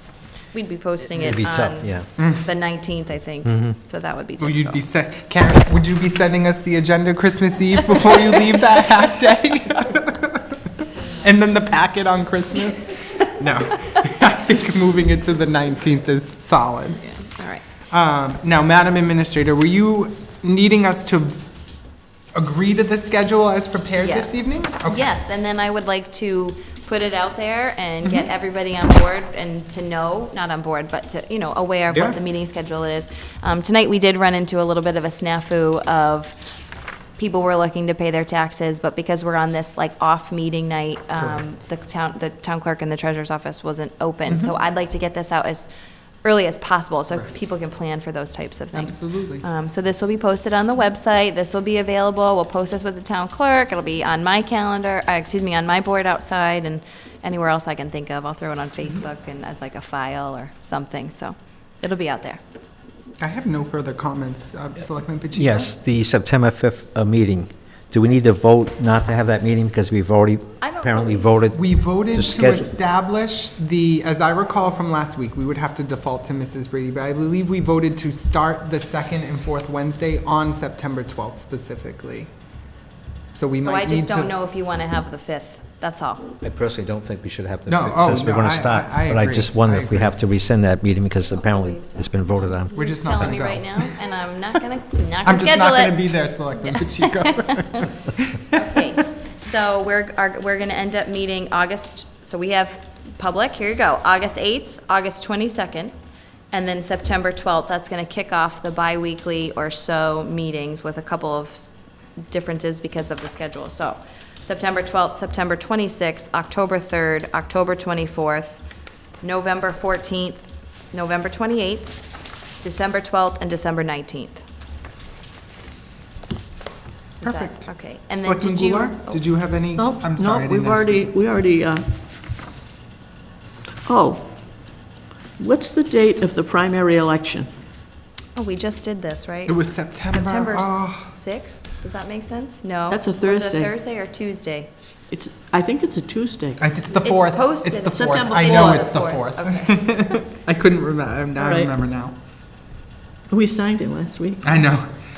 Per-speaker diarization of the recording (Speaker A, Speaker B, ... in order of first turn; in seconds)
Speaker A: 0.5-4.8, 17.0-17.6, 24.0-36.4, 37.2-45.7, 46.2-62.4, 70.6-71.4, 83.6-86.3, 91.3-97.8, 98.5-105.9, 106.5-111.8, 112.3-118.6, 119.2-121.9, 122.6-124.4, 127.2-129.2, 138.3-144.7, 147.0-150.2
Speaker B: 1.1-2.1, 3.5-3.7, 65.3-72.7, 86.4-92.7
Speaker C: 2.2-2.5, 4.4-10.6, 11.2-17.0, 17.9-21.4, 22.3-25.1, 31.9-32.2, 41.2-41.4, 44.3-44.5, 48.7-49.5, 63.2-65.7, 71.5-82.3, 83.3-84.3, 87.7-90.2, 92.8-93.9, 95.2-98.5, 127.2-131.1, 139.5-141.1, 146.6-152.2, 154.4-154.9
Speaker D: 129.8-131.8, 133.9-134.3, 135.4-137.5, 142.9-143.7, 145.1-146.6, 147.9-148.9, 151.4-151.7, 153.3-154.4